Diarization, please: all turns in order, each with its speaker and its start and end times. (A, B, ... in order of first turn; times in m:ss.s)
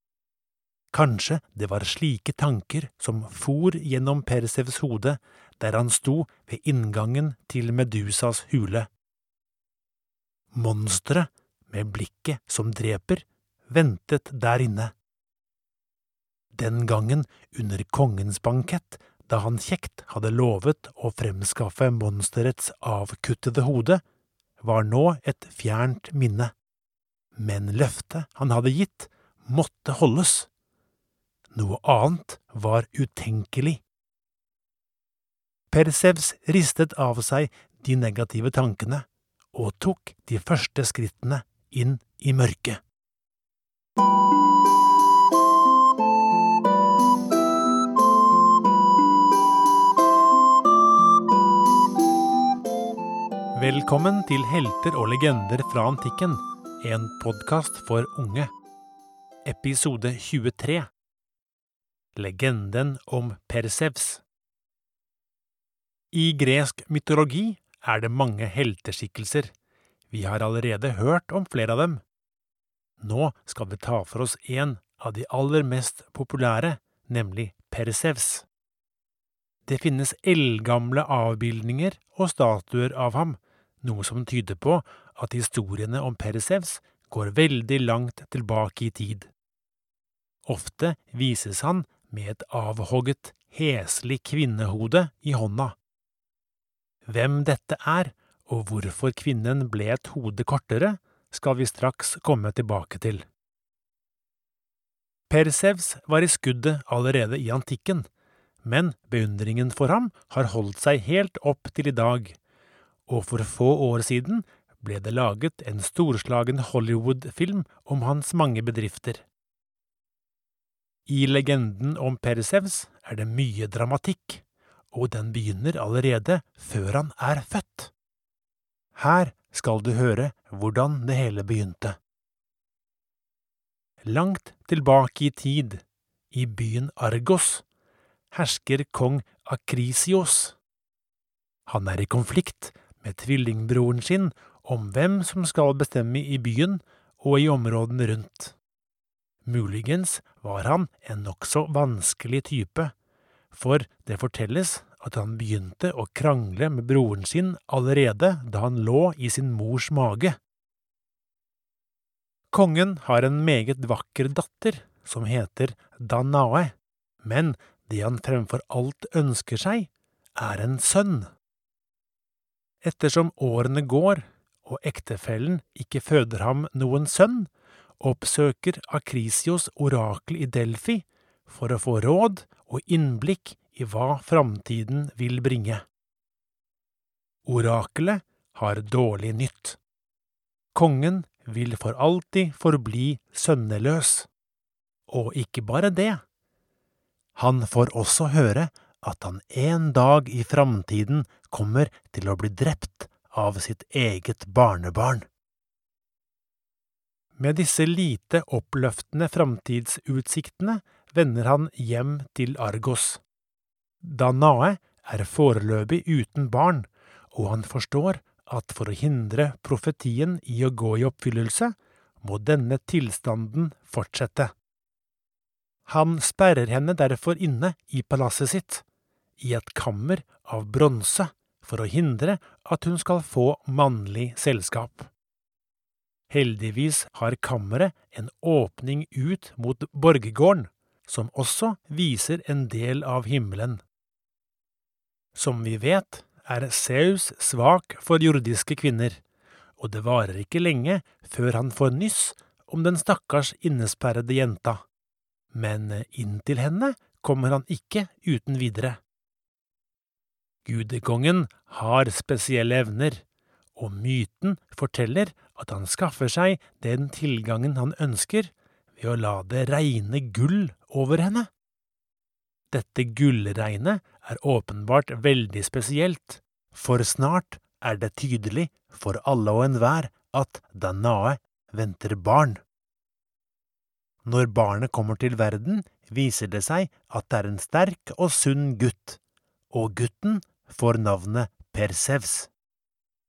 0:00.9-0:08.9 A
0:10.5-0:14.9 A
0:16.5-0:24.0 A
0:24.6-0:26.5 A
0:27.4-0:30.5 A
0:31.5-0:33.8 A
0:35.7-0:42.8 A
0:53.5-0:58.5 A
0:59.4-1:00.9 A
1:02.2-1:04.2 A
1:06.1-1:09.5 A
1:10.1-1:12.0 A
1:13.0-1:18.5 A
1:19.7-1:29.3 A
1:30.4-1:35.8 A
1:37.1-1:43.2 A
1:45.3-1:48.1 A
1:48.6-1:52.4 A
1:53.1-1:59.2 A
2:01.1-2:07.9 A
2:09.0-2:12.0 A
2:14.0-2:17.6 A
2:18.3-2:20.6 A
2:21.7-2:28.6 A
2:29.4-2:32.9 A
2:33.5-2:40.4 A
2:42.5-2:51.3 A
2:52.8-3:05.8 A
3:07.4-3:09.8 A
3:10.8-3:14.3 A
3:15.1-3:16.2 A
3:17.4-3:25.3 A
3:27.4-3:33.2 A
3:34.0-3:44.5 A
3:45.9-3:48.8 A
3:49.4-3:55.1 A
3:56.3-4:03.8 A
4:05.3-4:09.2 A
4:09.8-4:14.8 A
4:15.5-4:19.0 A
4:20.6-4:23.2 A
4:23.8-4:31.5 A
4:32.7-4:42.6 A
4:44.2-4:49.2 A
4:49.7-4:52.5 A